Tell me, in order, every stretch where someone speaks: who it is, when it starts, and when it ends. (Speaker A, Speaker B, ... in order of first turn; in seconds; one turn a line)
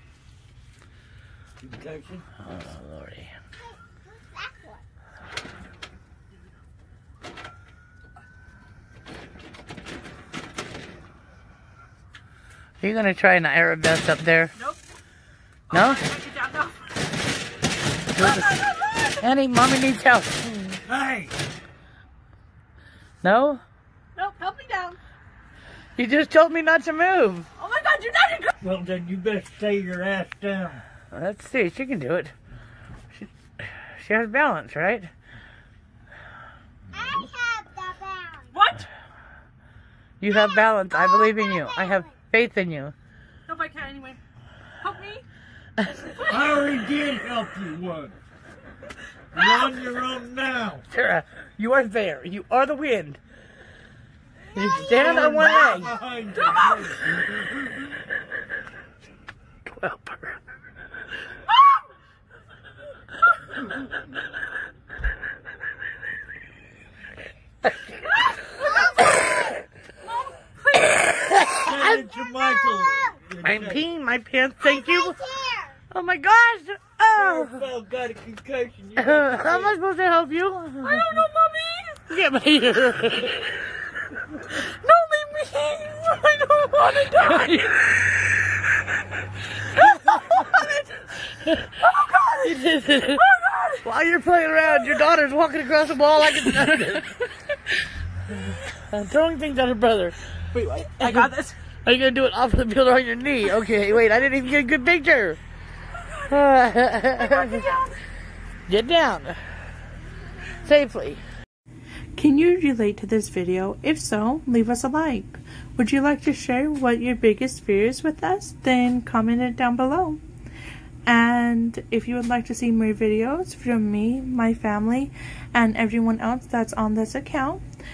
Speaker A: 1.6-2.2
Speaker B: 2.4-3.3
Speaker B: 12.8-14.5
Speaker C: 15.7-16.9
Speaker B: 15.7-16.1
Speaker B: 18.1-18.6
Speaker C: 18.2-19.2
Speaker B: 19.2-20.8
Speaker A: 20.9-21.4
Speaker B: 23.2-23.6
Speaker C: 24.2-25.0
Speaker B: 26.0-27.5
Speaker C: 27.6-28.5
Speaker A: 28.6-30.8
Speaker B: 31.1-32.3
Speaker B: 33.1-35.1
Speaker D: 37.0-38.5
Speaker C: 38.5-38.9
Speaker B: 40.2-42.9
Speaker C: 43.5-44.2
Speaker C: 44.8-45.2
Speaker A: 46.2-48.1
Speaker A: 49.3-50.9
Speaker B: 50.9-53.2
Speaker B: 54.5-56.0
Speaker A: 54.7-57.9
Speaker B: 59.7-60.4
Speaker C: 68.3-69.1
Speaker C: 70.0-71.1
Speaker B: 71.3-71.9
Speaker A: 71.6-73.9
Speaker B: 73.4-75.3
Speaker D: 75.2-75.7
Speaker B: 75.9-77.7
Speaker A: 77.2-79.7
Speaker B: 79.0-81.2
Speaker C: 80.8-82.0
Speaker B: 82.1-83.5
Speaker C: 84.5-87.5
Speaker B: 87.1-87.8
Speaker B: 90.0-90.3
Speaker C: 90.0-90.8
Speaker C: 91.9-92.5
Speaker B: 92.4-93.2
Speaker C: 93.2-93.8
Speaker B: 93.8-97.2
Speaker B: 98.3-105.4
Speaker C: 100.6-101.5
Speaker B: 106.3-107.8
Speaker C: 107.2-108.0
Speaker B: 108.7-109.4
Speaker B: 110.5-111.2
Speaker E: 112.2-120.2
Speaker E: 121.1-127.6